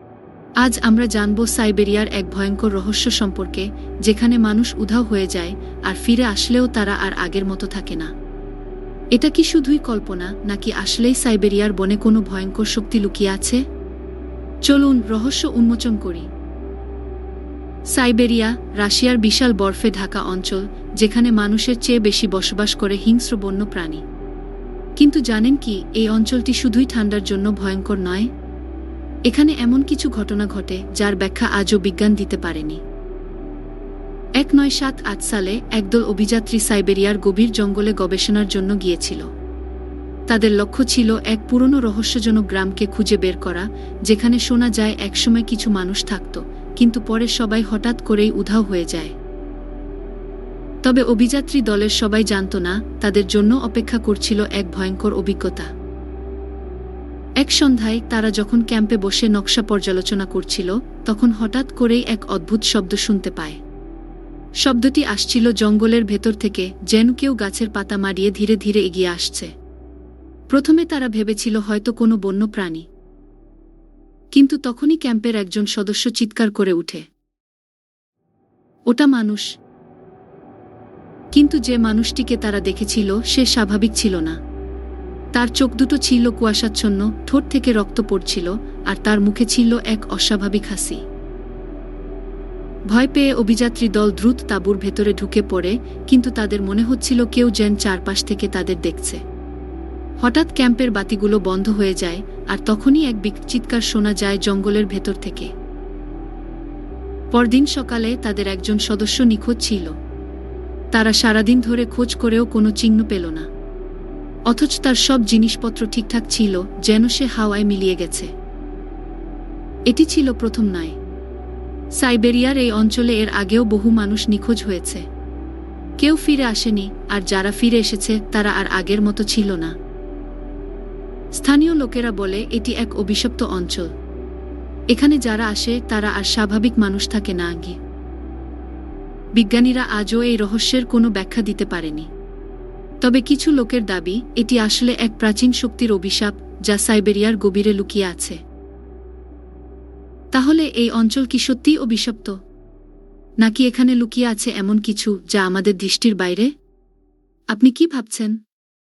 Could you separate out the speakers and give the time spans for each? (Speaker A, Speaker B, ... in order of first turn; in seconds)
Speaker A: 0.6-8.1, 9.2-13.6, 14.7-16.3, 18.0-24.0, 25.0-28.3, 29.3-32.8, 34.4-39.3, 40.3-49.1, 50.8-55.7, 57.4-63.6, 64.6-69.5, 70.5-72.8, 74.3-77.0, 78.9-79.5, 81.3-84.4, 85.3-91.0, 92.9-99.2, 100.2-105.5, 107.3-109.9, 110.9-113.5, 114.5-118.3, 119.9-121.0, 122.0-125.0, 126.0-129.7, 131.4-133.9, 134.9-137.8, 139.4-142.1, 143.0-148.4, 150.3-152.4, 153.4-156.5, 157.5-158.4